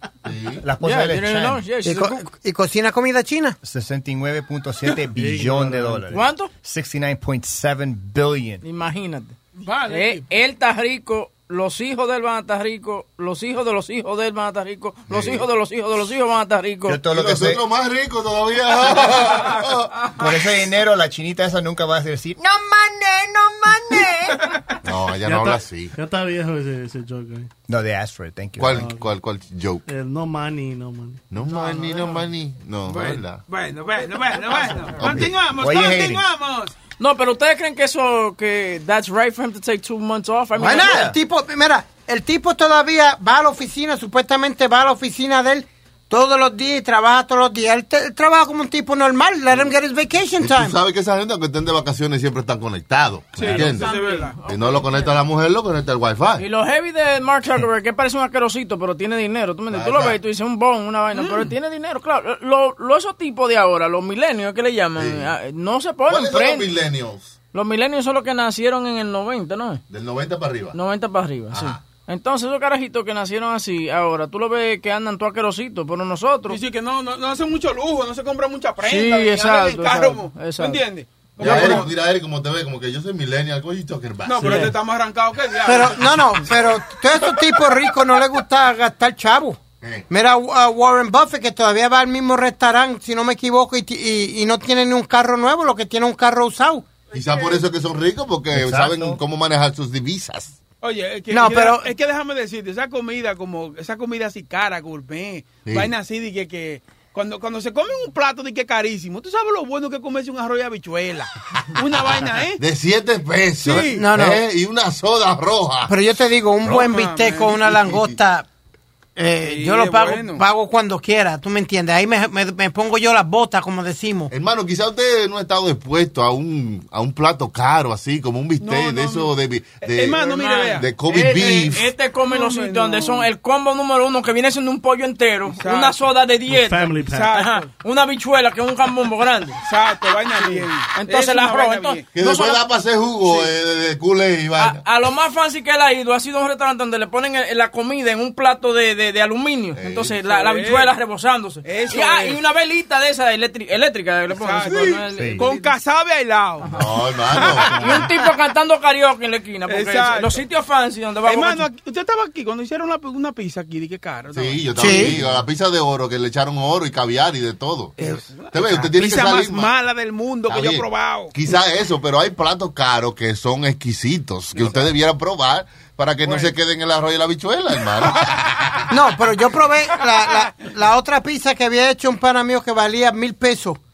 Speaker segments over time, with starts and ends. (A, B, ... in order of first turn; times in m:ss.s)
0:00.2-0:00.6 A
0:00.6-0:01.6 B
0:00.8-0:02.3 C
0:01.8-0:03.6 D
0:03.6-0:08.6 B
0:05.1-0:06.2 E
0:06.1-0:06.5 C
0:08.6-0:09.4 C
0:09.6-0:10.2 F
0:09.9-0:17.0 C
0:15.1-0:15.4 A
0:16.9-0:17.6 B
0:17.1-0:19.9 A
0:20.1-0:24.4 B
0:24.4-0:24.7 F
0:24.8-0:25.9 A
0:25.2-0:27.5 E
0:27.7-0:28.9 B
0:28.6-0:29.8 A
0:28.7-0:29.0 E
0:29.9-0:31.2 E
0:31.3-0:33.4 A
0:31.5-0:32.2 F
0:32.9-0:36.7 F
0:34.9-0:36.3 B
0:35.0-0:35.3 A
0:37.0-0:41.1 C
0:40.6-0:50.8 D
0:40.7-0:41.1 B
0:50.4-0:53.9 A
0:53.4-0:54.4 F
0:53.5-0:55.2 C
0:54.4-0:56.4 A
0:56.4-1:06.7 C
0:59.7-1:00.2 A
1:01.1-1:01.5 F
1:05.0-1:05.3 A
1:06.1-1:07.3 A
1:07.5-1:09.8 C
1:09.9-1:10.8 A
1:10.7-1:16.6 C
1:11.5-1:11.8 A
1:16.5-1:21.9 F
1:18.8-1:20.8 C
1:21.4-1:24.7 A
1:21.5-1:21.8 C
1:24.2-1:26.1 F
1:24.4-1:24.7 E
1:25.6-1:29.6 D
1:30.1-1:37.0 D
1:37.1-1:40.6 A
1:38.5-1:39.2 B
1:40.8-1:52.6 F
1:41.3-1:41.9 D
1:45.6-1:45.9 A
1:52.6-1:55.9 A
1:53.6-1:54.0 F
1:53.8-1:54.4 D
1:55.9-1:58.4 D
1:56.6-1:57.9 F
1:57.8-1:58.2 A
1:59.2-2:04.3 D
1:59.4-2:00.4 F
2:04.3-2:11.8 A
2:08.6-2:11.8 F
2:11.1-2:19.6 C
2:12.3-2:13.3 F
2:15.6-2:16.0 F
2:16.5-2:17.3 E
2:17.1-2:17.7 F
2:19.6-2:22.1 F
2:20.9-2:22.6 C
2:22.1-2:24.8 A
2:24.6-2:35.8 C
2:29.8-2:30.1 A
2:30.3-2:30.9 F
2:31.6-2:32.4 F
2:34.4-2:36.8 F
2:35.2-2:35.5 B
2:36.7-2:38.0 A
2:37.3-2:38.0 F
2:37.6-2:41.6 C
2:39.7-2:40.4 F
2:41.2-2:44.8 F
2:44.3-2:49.7 A
2:44.8-2:45.2 D
2:48.0-2:51.3 F
2:50.5-2:58.5 A
2:58.2-2:58.7 F
2:58.9-3:03.8 D
2:59.9-3:00.7 F